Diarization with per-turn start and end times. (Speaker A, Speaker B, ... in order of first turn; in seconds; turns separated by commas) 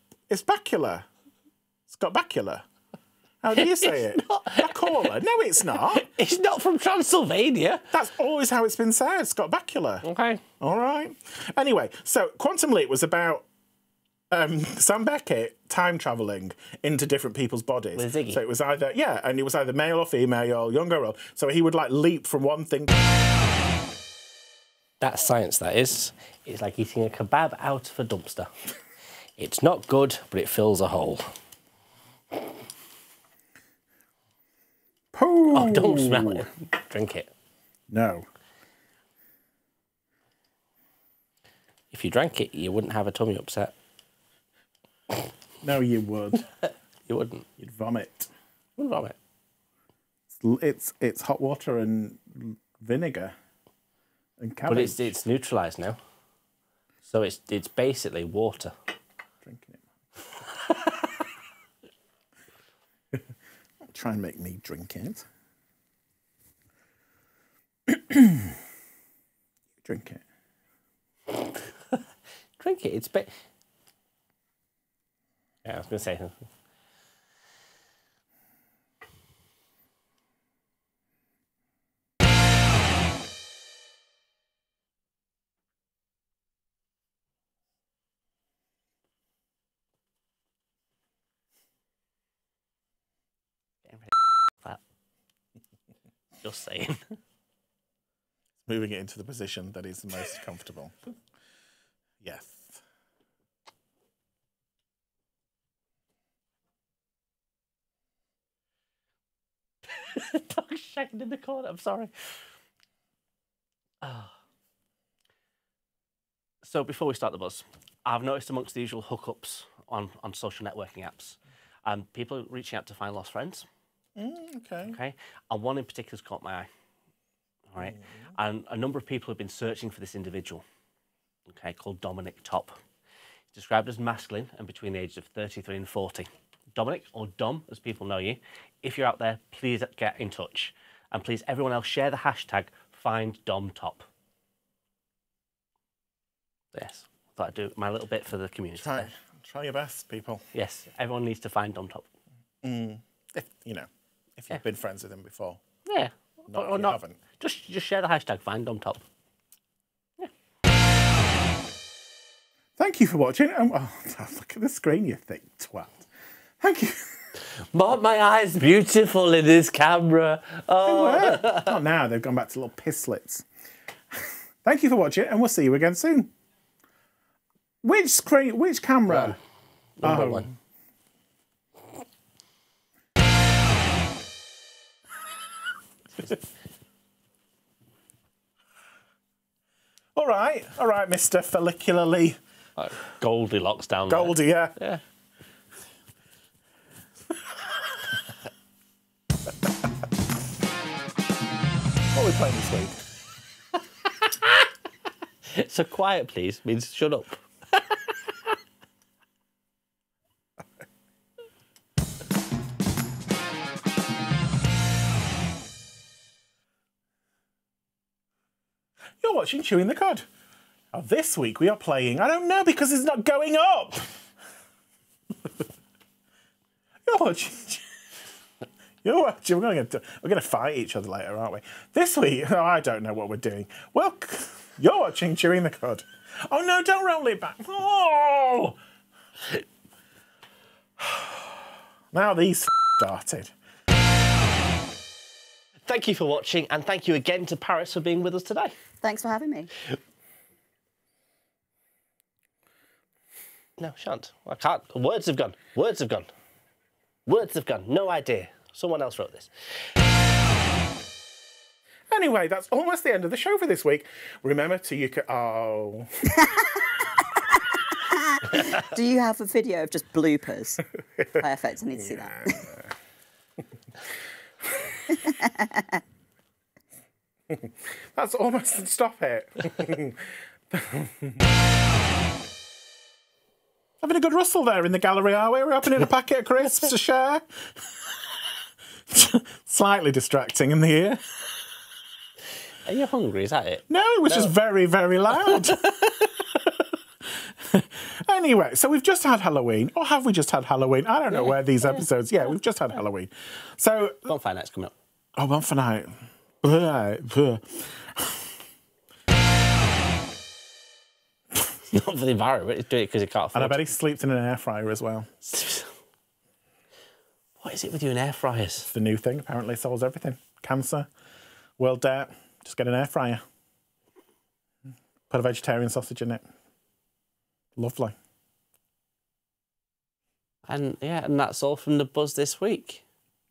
Speaker A: 0.3-1.1, Speaker A: 1.9-2.6, Speaker A: 3.4-6.1, Speaker B: 3.6-5.1, Speaker B: 5.7-7.9, Speaker A: 7.9-10.1, Speaker B: 10.0-10.4, Speaker A: 10.6-13.4, Speaker A: 14.3-23.0, Speaker B: 18.0-18.4, Speaker B: 25.0-28.5, Speaker B: 29.4-31.3, Speaker A: 35.1-36.5, Speaker B: 35.5-37.3, Speaker A: 37.9-38.3, Speaker B: 41.9-43.7, Speaker A: 45.6-46.5, Speaker B: 47.1-47.5, Speaker A: 47.6-48.3, Speaker B: 48.8-49.2, Speaker A: 50.4-53.4, Speaker A: 54.4-55.1, Speaker B: 54.7-56.0, Speaker B: 57.0-58.8, Speaker A: 59.4-59.8, Speaker A: 60.7-61.1, Speaker A: 63.9-65.3, Speaker A: 67.9-68.5, Speaker A: 69.8-70.2, Speaker B: 72.6-73.3, Speaker B: 75.7-76.4, Speaker B: 93.9-94.8, Speaker B: 96.4-97.1, Speaker A: 98.7-101.0, Speaker A: 102.2-102.8, Speaker B: 110.1-112.3, Speaker B: 114.0-114.3, Speaker B: 116.6-123.7, Speaker A: 124.2-125.0, Speaker B: 124.9-126.7, Speaker B: 127.7-130.6, Speaker B: 131.5-132.8, Speaker B: 133.5-144.1, Speaker B: 146.7-149.1, Speaker A: 148.8-150.4, Speaker B: 150.5-152.1, Speaker A: 152.6-155.6, Speaker B: 155.9-159.0, Speaker A: 156.5-157.2, Speaker A: 162.8-166.0, Speaker A: 166.6-167.1, Speaker B: 167.7-171.7, Speaker A: 170.8-173.4, Speaker A: 174.1-176.3, Speaker A: 177.8-179.4, Speaker B: 179.1-179.4, Speaker B: 180.0-180.5, Speaker A: 180.0-180.5, Speaker A: 190.2-192.4, Speaker B: 192.8-195.0, Speaker A: 194.1-194.8, Speaker A: 202.1-203.0, Speaker B: 204.2-204.5, Speaker B: 205.5-207.4, Speaker A: 219.2-220.3, Speaker A: 220.9-224.1, Speaker A: 227.1-227.8, Speaker A: 229.0-238.8, Speaker A: 241.0-241.4, Speaker A: 242.1-243.5, Speaker B: 245.9-248.8, Speaker C: 249.0-249.7, Speaker B: 253.8-256.3, Speaker B: 257.3-259.5, Speaker A: 262.1-266.4, Speaker C: 268.4-270.8, Speaker C: 271.4-272.8, Speaker C: 275.3-275.9, Speaker A: 277.5-281.4, Speaker A: 284.0-287.4, Speaker A: 289.1-291.3, Speaker B: 292.9-294.5, Speaker A: 293.9-296.9, Speaker A: 297.4-304.3, Speaker B: 301.3-301.6, Speaker B: 304.2-304.9, Speaker A: 305.4-308.5, Speaker B: 311.9-313.8, Speaker A: 313.6-315.3, Speaker B: 315.5-315.9, Speaker B: 317.6-318.9, Speaker A: 318.8-321.1, Speaker A: 321.8-323.4, Speaker A: 325.3-326.5, Speaker A: 327.8-328.1, Speaker B: 330.7-333.0